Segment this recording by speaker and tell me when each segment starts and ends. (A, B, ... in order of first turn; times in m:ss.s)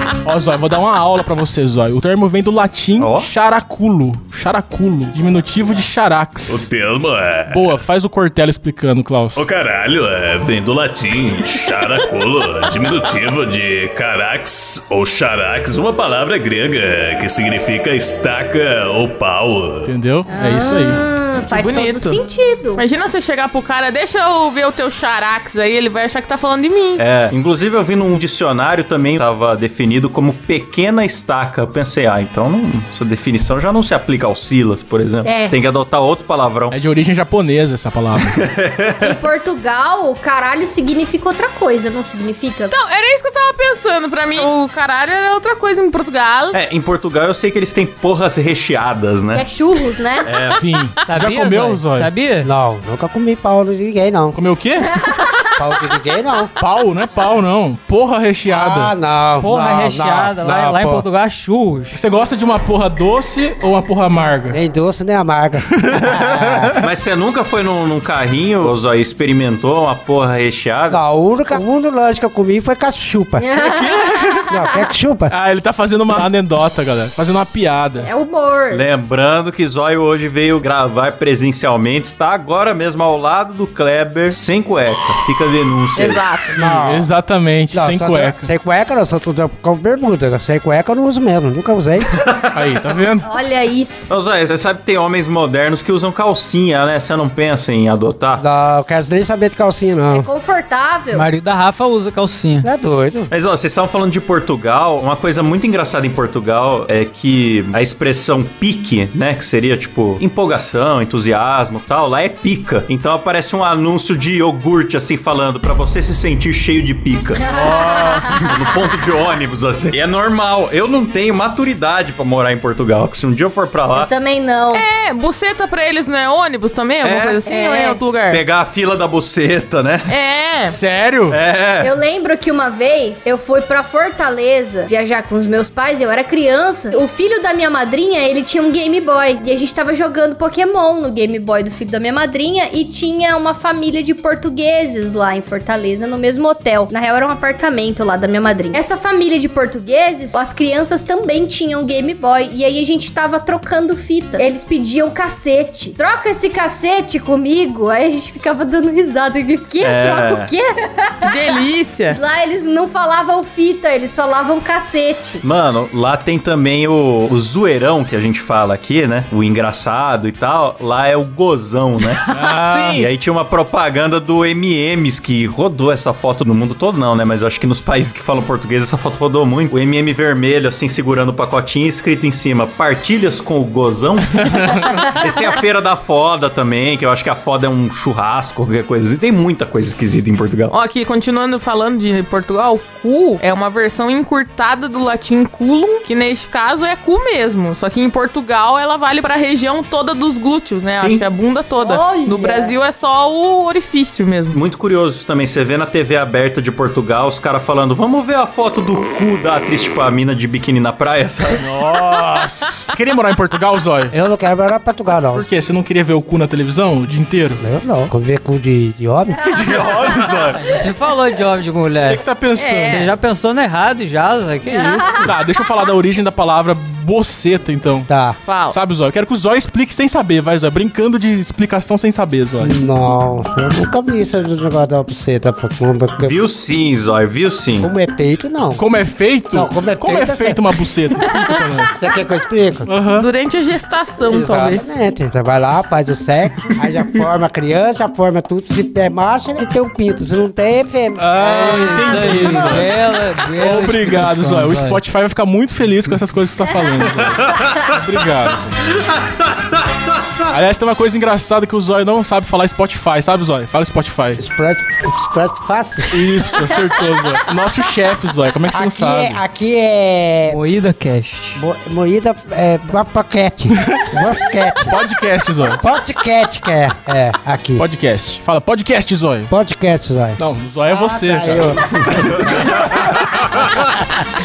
0:00.2-0:06.7 A
0:03.0-0:03.3 B
0:06.5-0:07.8 B
0:07.5-0:09.4 A
0:09.3-0:19.9 B
0:19.8-0:21.0 A
0:20.3-0:22.8 C
0:21.5-0:22.2 D
0:22.8-0:27.0 D
0:27.0-0:36.8 B
0:35.2-0:35.5 C
0:36.7-0:38.4 A
0:38.2-0:39.2 B
0:39.0-0:42.7 C
0:42.7-0:46.6 D
0:46.5-0:49.4 B
0:49.3-0:50.3 C
0:50.2-0:50.6 B
0:50.5-0:52.1 A
0:51.0-0:52.5 E
0:52.4-0:54.4 F
0:54.3-0:55.1 A
0:55.0-0:55.4 C
0:55.6-0:56.5 F
0:56.6-0:58.9 A
0:58.5-1:01.1 F
0:59.4-1:02.0 E
1:01.9-1:04.6 A
1:04.5-1:06.8 F
1:05.7-1:06.8 A
1:06.8-1:11.0 B
1:10.9-1:13.5 F
1:13.4-1:14.8 C
1:13.5-1:14.5 A
1:14.5-1:15.3 F
1:15.3-1:18.1 A
1:18.0-1:18.8 C
1:18.7-1:26.3 B
1:26.0-1:26.6 D
1:26.5-1:28.5 A
1:26.6-1:27.1 F
1:27.7-1:32.2 F
1:32.2-1:32.5 B
1:32.5-1:33.2 A
1:33.2-1:34.1 C
1:34.1-1:38.4 B
1:38.4-1:40.3 F
1:40.1-1:41.3 C
1:41.1-1:42.7 E
1:42.6-1:43.3 F
1:43.3-1:57.4 B
1:57.4-1:58.6 C
1:57.5-1:58.4 A
1:58.2-2:04.1 B
2:03.9-2:04.8 C
2:04.7-2:08.4 D
2:07.0-2:07.4 B
2:07.4-2:08.0 C
2:08.3-2:10.1 B
2:10.1-2:10.8 D
2:10.6-2:11.4 A
2:11.3-2:11.9 B
2:11.8-2:41.6 C
2:39.8-2:40.5 B
2:41.2-2:42.2 D
2:42.1-2:45.4 C
2:45.4-2:52.2 B
2:52.3-2:53.0 D
2:52.3-2:53.1 A
2:53.0-3:10.7 B
3:04.4-3:04.9 A
3:10.7-3:24.6 D
3:20.9-3:21.2 B
3:21.8-3:22.7 C
3:24.5-3:31.7 B
3:31.6-3:34.1 A
3:34.1-3:35.4 F
3:35.3-3:37.6 A
3:37.6-3:39.4 F
3:39.4-3:40.6 B
3:39.5-3:40.1 C
3:40.6-3:42.2 E
3:42.0-3:43.0 A
3:42.5-3:43.1 D
3:42.8-3:45.3 E
3:44.7-3:45.3 C
3:45.2-3:48.1 A
3:48.1-3:48.4 F
3:48.4-3:48.8 D
3:48.7-3:52.7 A
3:52.6-3:56.4 F
3:56.2-3:57.9 B
3:57.8-3:58.8 F
3:58.7-4:02.0 A
3:59.5-4:00.6 F
4:01.9-4:02.9 F
4:02.8-4:03.3 A
4:03.1-4:04.9 D
4:04.2-4:12.9 F
4:11.2-4:13.0 A
4:11.4-4:15.0 E
4:13.5-4:18.8 A
4:17.4-4:17.9 B
4:19.0-4:20.5 B
4:20.5-4:24.4 A
4:24.4-4:26.2 F
4:26.1-4:29.4 A
4:28.7-4:30.6 F
4:30.4-4:31.6 E
4:31.6-4:35.0 F
4:33.8-4:34.2 A
4:34.8-4:35.8 A
4:35.8-4:37.8 F
4:37.8-4:39.5 A
4:39.5-4:43.9 F
4:40.4-4:43.1 A